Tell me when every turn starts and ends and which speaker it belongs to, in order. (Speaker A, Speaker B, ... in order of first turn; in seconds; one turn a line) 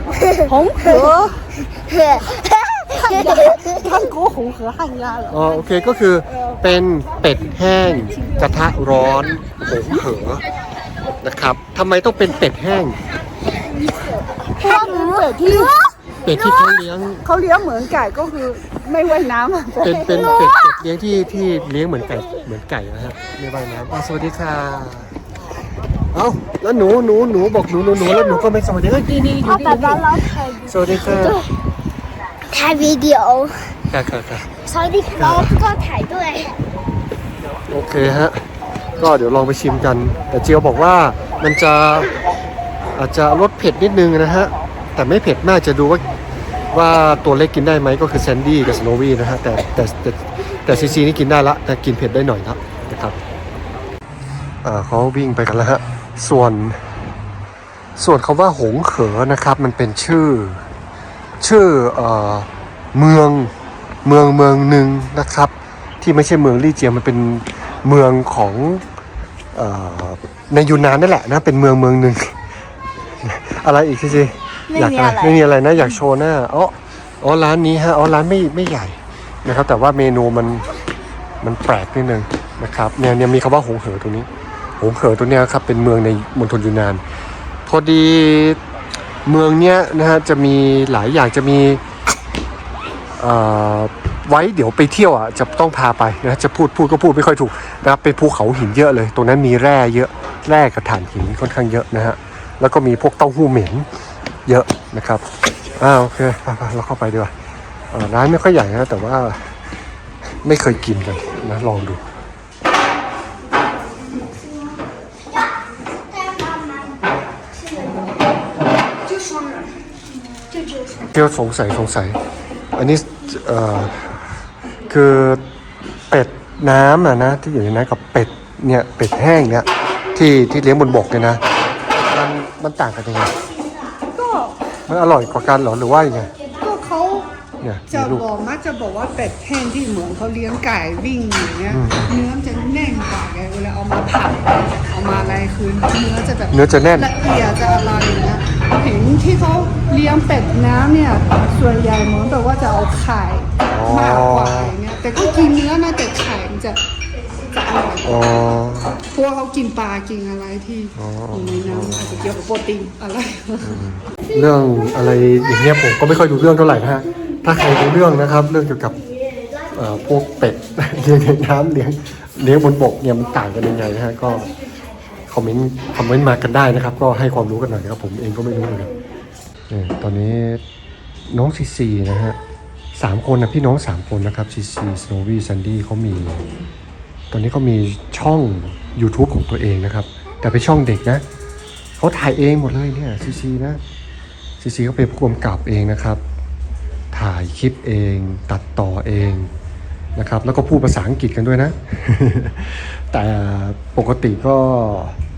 Speaker A: 0.2-1.1
Speaker B: 0.4-1.7
Speaker A: 1.8-3.7
Speaker B: 2.2-5.5
Speaker C: 5.3-10.4
Speaker B: 8.1-8.5
Speaker C: 11.2-13.0
Speaker A: 13.6-15.8
Speaker B: 14.5-15.8
Speaker C: 16.2-17.2
Speaker A: 16.3-16.7
Speaker B: 17.2-20.3
Speaker C: 19.8-25.2
Speaker A: 20.2-20.7
Speaker C: 26.1-29.5
Speaker B: 29.1-30.1
Speaker A: 29.4-31.5
Speaker C: 30.6-31.4
Speaker A: 32.5-33.9
Speaker C: 33.9-34.6
Speaker A: 34.6-36.6
Speaker C: 35.1-35.6
Speaker C: 37.7-38.4
Speaker C: 39.0-42.1
Speaker C: 43.0-46.0
Speaker C: 46.7-53.2
Speaker C: 54.6-56.8
Speaker C: 58.0-60.6
Speaker C: 61.4-63.5
Speaker C: 64.0-68.8
Speaker C: 69.5-72.3
Speaker C: 73.2-80.6
Speaker A: 74.7-75.4
Speaker C: 81.4-84.3
Speaker C: 84.8-87.0
Speaker C: 87.6-88.6
Speaker C: 89.2-91.8
Speaker C: 93.2-103.8
Speaker C: 104.5-105.2
Speaker C: 105.8-107.3
Speaker C: 107.9-109.6
Speaker C: 110.4-112.0
Speaker A: 116.1-117.0
Speaker A: 117.7-118.0
Speaker B: 119.1-119.6
Speaker C: 121.0-122.2
Speaker C: 122.8-124.3
Speaker C: 124.9-125.4
Speaker C: 126.1-131.4
Speaker C: 132.0-133.3
Speaker B: 134.1-134.6
Speaker C: 134.9-136.3
Speaker B: 136.5-137.3
Speaker C: 137.6-138.3
Speaker B: 137.9-156.8
Speaker C: 141.7-142.1
Speaker C: 145.1-145.5
Speaker C: 146.5-147.1
Speaker C: 153.6-154.8
Speaker B: 157.4-163.8
Speaker C: 158.0-159.0
Speaker C: 160.9-162.3
Speaker C: 163.6-169.0
Speaker C: 169.6-174.5
Speaker C: 175.2-178.9
Speaker C: 179.7-180.6
Speaker C: 181.3-182.4
Speaker C: 182.9-186.4
Speaker C: 187.3-191.2
Speaker C: 192.0-193.8
Speaker C: 194.6-196.2
Speaker C: 197.1-199.5
Speaker C: 200.2-205.1